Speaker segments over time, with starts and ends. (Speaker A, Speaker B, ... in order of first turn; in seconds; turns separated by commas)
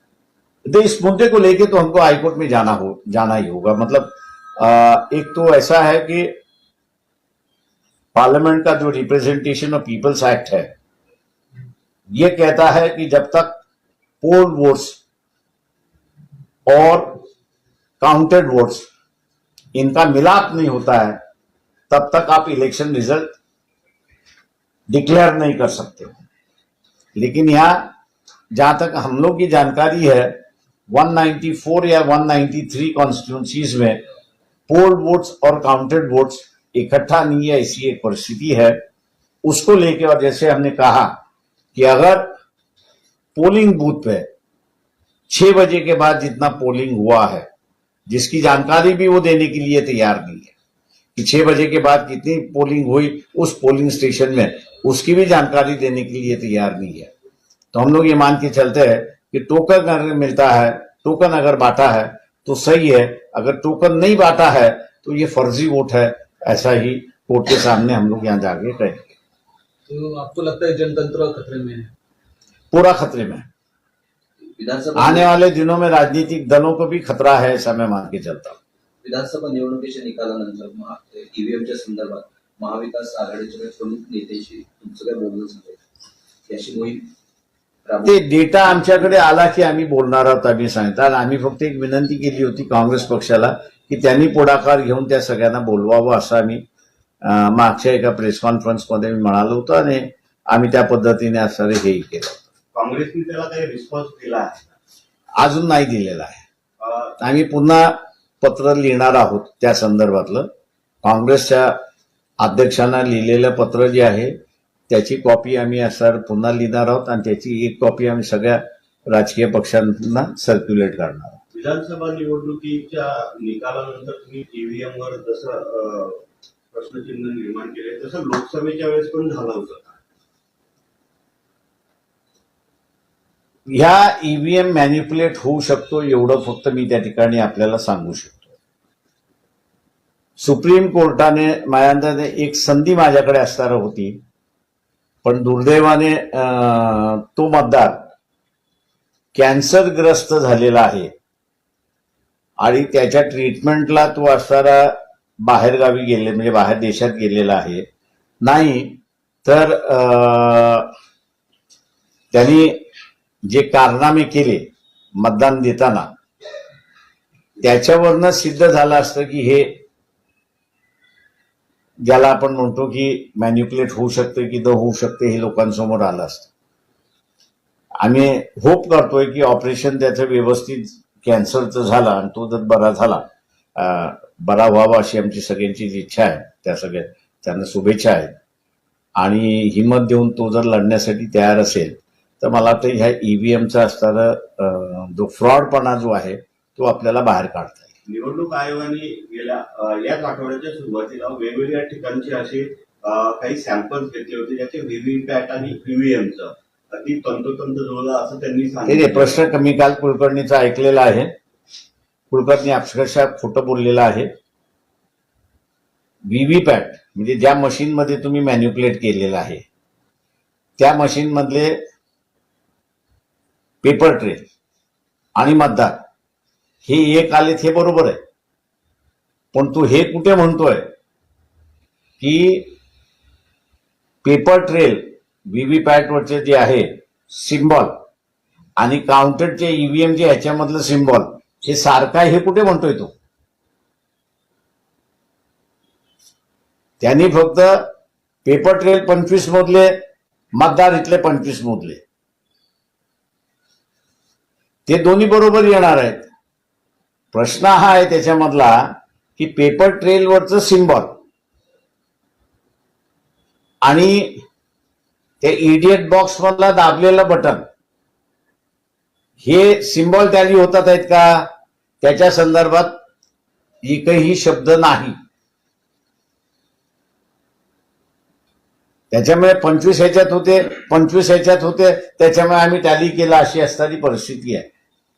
Speaker A: 0.7-6.3, Speaker A: 8.1-10.7, Speaker A: 12.1-13.6, Speaker A: 14.2-15.0, Speaker A: 16.7-17.2, Speaker A: 18.0-18.9, Speaker A: 19.7-21.2, Speaker A: 21.9-23.3, Speaker A: 24.9-26.2, Speaker A: 27.2-27.9, Speaker A: 28.5-30.4, Speaker A: 30.9-34.0, Speaker A: 34.7-38.8, Speaker A: 39.4-41.1, Speaker A: 41.8-42.3, Speaker A: 43.4-44.3, Speaker A: 45.3-47.5, Speaker A: 48.1-50.5, Speaker A: 51.2-57.1, Speaker A: 57.7-69.0, Speaker B: 69.9-71.9, Speaker A: 72.7-73.5, Speaker C: 74.5-75.3, Speaker A: 75.0-78.6, Speaker C: 79.0-85.8, Speaker C: 86.5-87.1, Speaker C: 87.9-88.1, Speaker A: 88.0-96.6, Speaker A: 97.2-102.5, Speaker D: 102.7-104.7, Speaker A: 105.4-106.4, Speaker D: 106.8-107.2, Speaker A: 107.2-110.5, Speaker A: 111.0-111.8, Speaker A: 112.4-114.4, Speaker A: 114.9-121.4, Speaker D: 121.5-130.0, Speaker A: 133.7-138.5, Speaker A: 140.4-144.2, Speaker A: 145.2-148.0, Speaker A: 149.3-151.1, Speaker A: 152.6-157.9, Speaker A: 158.4-160.9, Speaker A: 162.3-162.8, Speaker A: 163.5-164.7, Speaker A: 165.2-166.1, Speaker A: 167.6-169.8, Speaker A: 172.0-176.5, Speaker A: 178.0-183.2, Speaker A: 183.8-188.3, Speaker A: 189.2-197.9, Speaker D: 198.1-209.4, Speaker A: 208.9-211.3, Speaker A: 212.3-214.3, Speaker A: 216.3-219.7, Speaker A: 220.8-221.8, Speaker A: 223.8-224.4, Speaker A: 225.4-226.0, Speaker A: 226.8-228.2, Speaker A: 229.5-230.9, Speaker A: 232.2-232.7, Speaker A: 234.2-237.9, Speaker A: 238.8-243.1, Speaker A: 247.0-247.9, Speaker A: 248.4-250.0, Speaker A: 250.6-252.0, Speaker A: 254.9-256.3, Speaker A: 257.3-261.2, Speaker A: 263.8-264.4, Speaker A: 265.4-267.6, Speaker A: 269.4-271.5, Speaker A: 272.0-273.0, Speaker A: 273.8-275.2, Speaker A: 279.1-284.7